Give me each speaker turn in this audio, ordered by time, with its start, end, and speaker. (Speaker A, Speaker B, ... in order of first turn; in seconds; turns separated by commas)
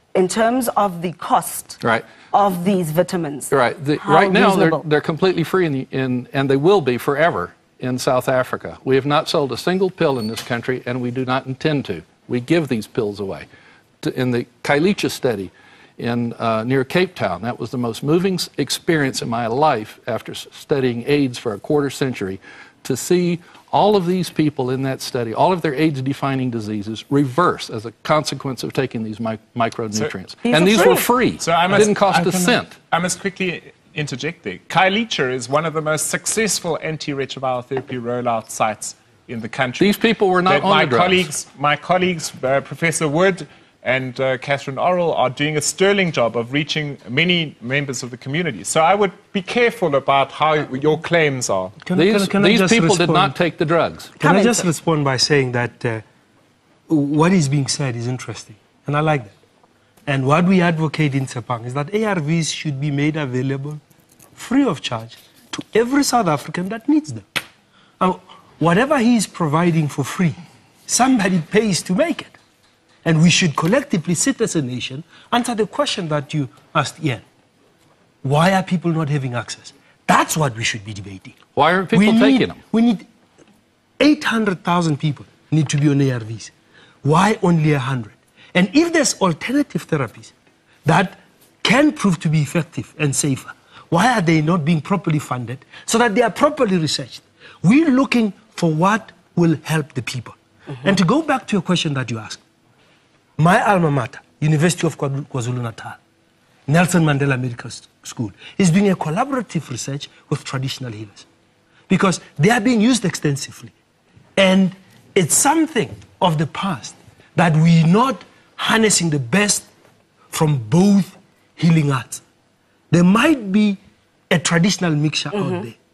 Speaker A: 0.1-1.8, Speaker A: 2.3-3.5, Speaker B: 3.5-13.4, Speaker A: 4.0-4.8, Speaker B: 14.0-32.7, Speaker A: 30.5-31.1, Speaker C: 31.4-51.8, Speaker D: 31.7-32.5, Speaker B: 39.8-41.3, Speaker D: 51.8-53.3, Speaker B: 51.9-54.7, Speaker D: 54.2-56.0, Speaker D: 56.9-59.3, Speaker D: 60.0-63.8, Speaker D: 64.3-67.2, Speaker D: 68.0-72.3, Speaker D: 73.0-77.2, Speaker D: 78.2-81.4, Speaker B: 81.5-82.6, Speaker D: 81.9-83.0, Speaker D: 84.0-86.5, Speaker D: 87.0-90.3, Speaker D: 90.8-102.4, Speaker D: 103.4-106.0, Speaker D: 106.7-111.2, Speaker D: 111.9-113.7, Speaker D: 114.3-119.7, Speaker D: 120.3-122.2, Speaker D: 122.9-125.7, Speaker A: 125.3-125.6